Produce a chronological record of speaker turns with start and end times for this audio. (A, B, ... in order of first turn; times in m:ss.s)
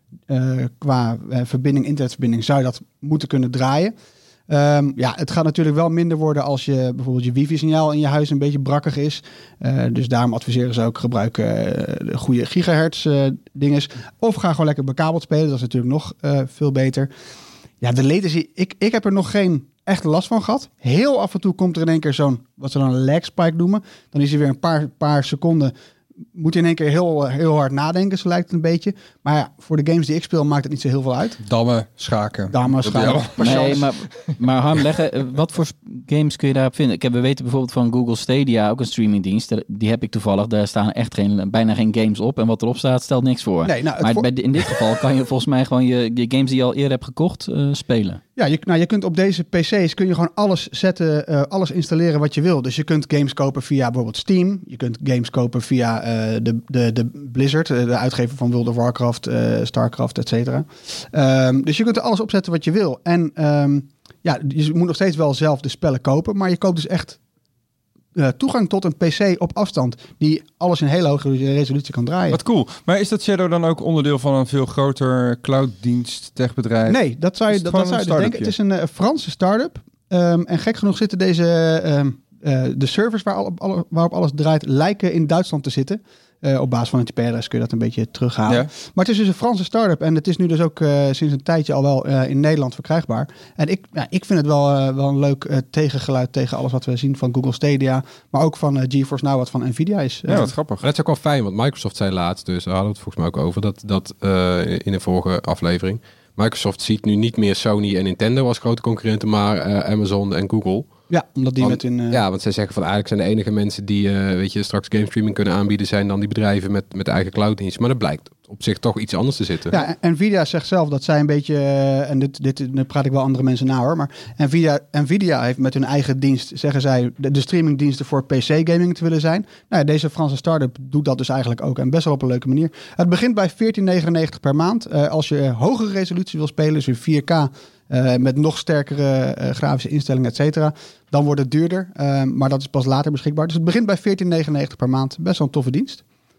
0:00.3-0:03.9 A
0:04.5-0:17.1 A
0:17.8-0:25.7 A
0:26.3-0:31.4 A
0:31.4-0:33.9 B
0:32.5-0:33.8 A
0:33.4-0:48.2 C
0:43.6-0:44.3 A
0:48.4-1:07.2 A
1:08.2-1:12.4 A
1:12.3-1:18.5 B
1:16.9-1:40.5 A
1:40.3-1:40.8 B
1:40.8-1:50.9 D
1:51.1-1:52.2 A
1:51.6-1:59.8 D
1:59.7-2:26.0 A